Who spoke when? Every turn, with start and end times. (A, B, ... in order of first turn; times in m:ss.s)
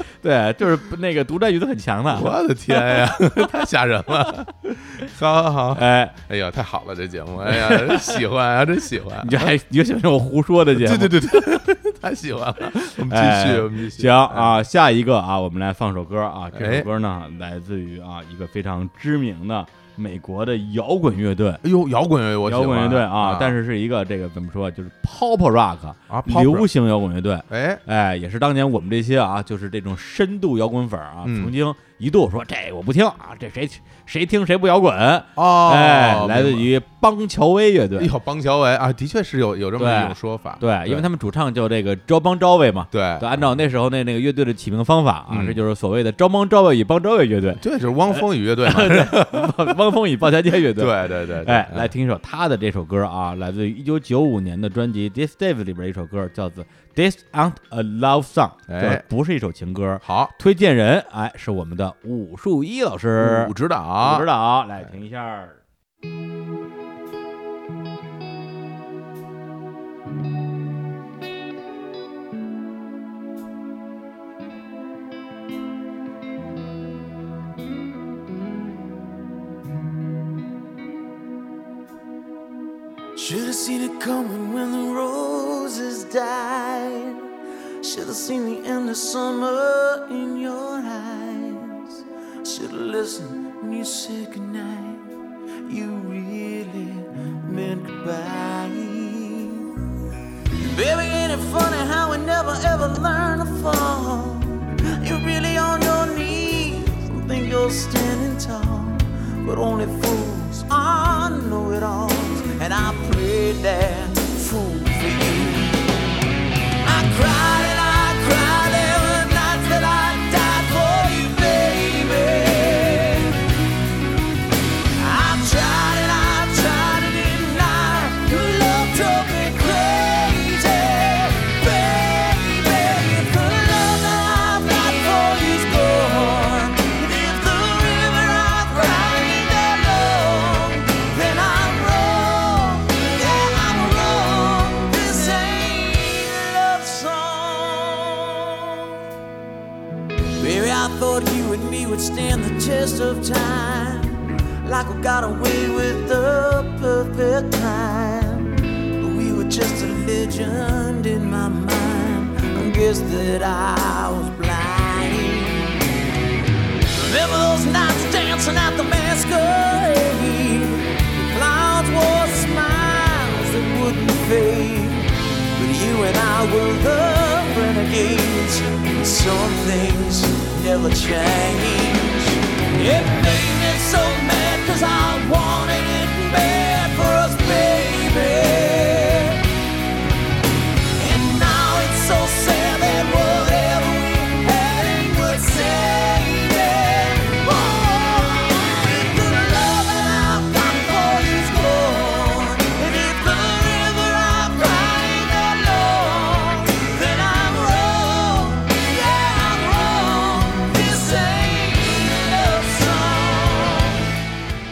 0:00.2-0:02.4 A
0:02.1-0:09.5 B
0:05.7-0:06.1 A
0:07.5-0:08.2 A
0:09.2-0:11.4 A
0:10.7-0:14.6 B
0:13.0-0:21.6 A
0:16.5-0:16.9 B
0:21.6-0:23.6 B
0:22.4-0:38.1 A
0:26.1-0:26.7 B
0:27.5-0:27.8 B
0:31.2-0:31.5 B
0:35.3-0:36.7 B
0:38.0-0:41.1 B
0:39.8-0:47.6 A
0:42.9-0:43.6 B
0:45.3-0:45.6 B
0:47.6-0:49.7 B
0:48.1-1:05.6 A
0:50.8-0:51.9 B
0:58.7-0:59.0 B
1:00.0-1:00.3 B
1:03.2-1:04.3 B
1:23.2-1:27.2 C
1:27.8-1:35.1 C
1:35.6-1:39.7 C
1:40.6-1:55.9 C
1:56.8-2:03.4 C
2:05.0-2:28.9 C
2:30.4-2:45.8 C
2:46.9-3:09.4 C
3:11.0-3:34.0 C